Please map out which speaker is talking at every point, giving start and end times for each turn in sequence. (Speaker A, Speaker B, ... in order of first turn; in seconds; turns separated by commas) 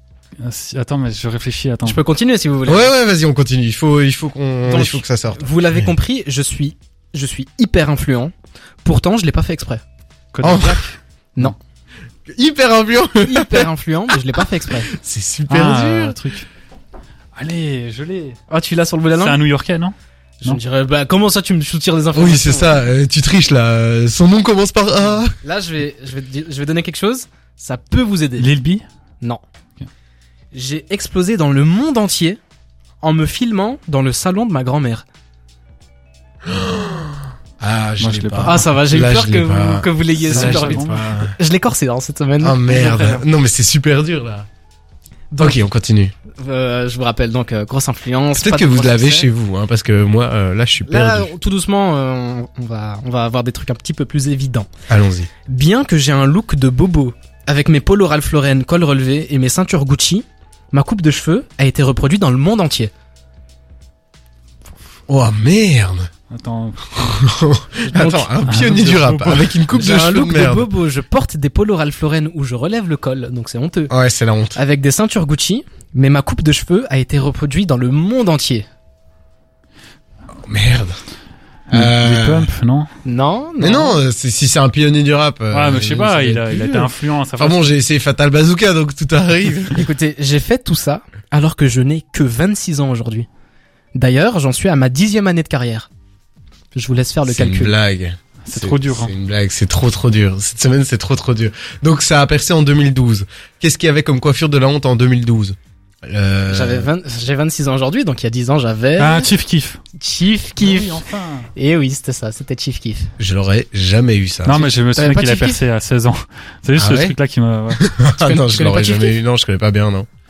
Speaker A: 0.4-2.0, Speaker B: 1.8-2.9, Speaker C: 2.6-5.9, Speaker B: 4.7-8.3, Speaker B: 8.8-9.8, Speaker A: 10.3-11.5, Speaker C: 10.4-10.8, Speaker C: 12.3-13.7, Speaker B: 13.2-14.9, Speaker C: 14.9-16.2, Speaker A: 15.5-16.5, Speaker A: 17.4-18.4, Speaker B: 18.5-19.4, Speaker A: 19.1-20.6, Speaker B: 20.4-22.8, Speaker C: 22.1-25.3, Speaker B: 25.4-28.5, Speaker A: 28.4-28.8, Speaker B: 30.5-32.4, Speaker B: 33.0-35.0, Speaker C: 36.5-41.3, Speaker A: 38.0-38.7, Speaker B: 38.4-43.2, Speaker A: 40.1-41.1, Speaker C: 42.4-44.5, Speaker B: 45.3-45.6, Speaker C: 45.4-46.1, Speaker B: 46.4-49.3, Speaker C: 48.4-51.3, Speaker B: 50.9-54.7, Speaker C: 54.9-55.3, Speaker B: 55.5-62.9, Speaker C: 65.1-66.1, Speaker A: 66.3-67.3, Speaker C: 67.1-70.7, Speaker B: 67.8-68.3, Speaker A: 68.4-69.6, Speaker B: 69.7-73.9, Speaker C: 73.9-74.6, Speaker B: 74.5-78.7, Speaker C: 80.5-81.0, Speaker A: 81.7-82.9, Speaker C: 81.7-82.5, Speaker B: 83.0-84.0, Speaker C: 83.6-89.8, Speaker A: 85.5-87.7, Speaker B: 89.7-93.3, Speaker B: 93.9-95.9, Speaker B: 96.7-97.7, Speaker C: 97.3-105.5, Speaker A: 98.4-99.1, Speaker C: 106.1-106.9, Speaker B: 106.5-109.3, Speaker A: 109.0-109.8, Speaker B: 110.0-111.0, Speaker A: 110.6-111.5, Speaker B: 111.5-113.1, Speaker C: 113.2-114.6, Speaker A: 114.4-117.8, Speaker B: 114.6-115.6, Speaker C: 116.8-117.2, Speaker C: 117.8-120.1, Speaker B: 118.2-119.2